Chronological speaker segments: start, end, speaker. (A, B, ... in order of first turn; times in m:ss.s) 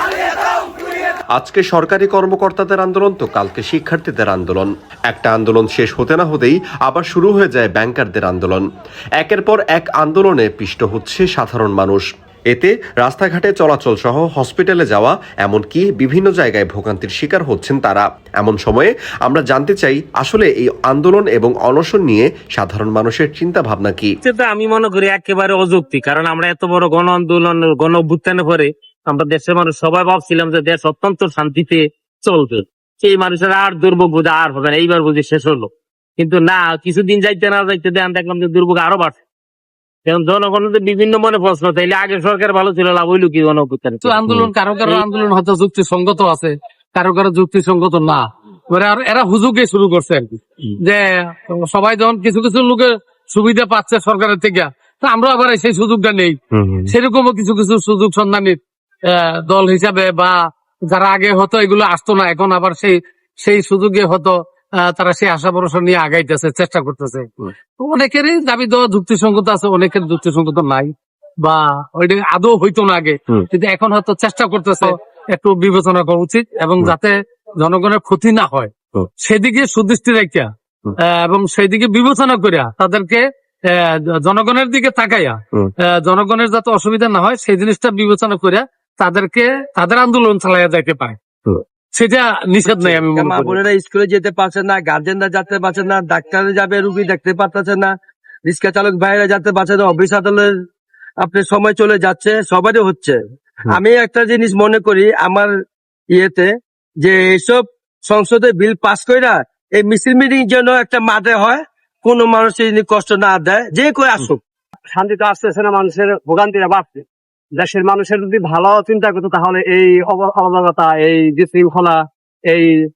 0:01.4-0:08.6 A
0:09.2-0:24.1 A
0:24.2-0:39.2 B
0:40.0-0:44.3 B
0:44.0-0:58.6 C
0:56.5-0:56.9 B
0:59.1-1:00.4 C
1:00.9-1:10.9 C
1:11.4-1:33.5 C
1:32.7-1:37.9 D
1:38.5-1:40.5 D
1:41.2-1:45.5 D
1:46.1-1:46.5 D
1:47.0-1:54.4 D
1:54.9-1:57.0 E
1:57.6-2:02.0 E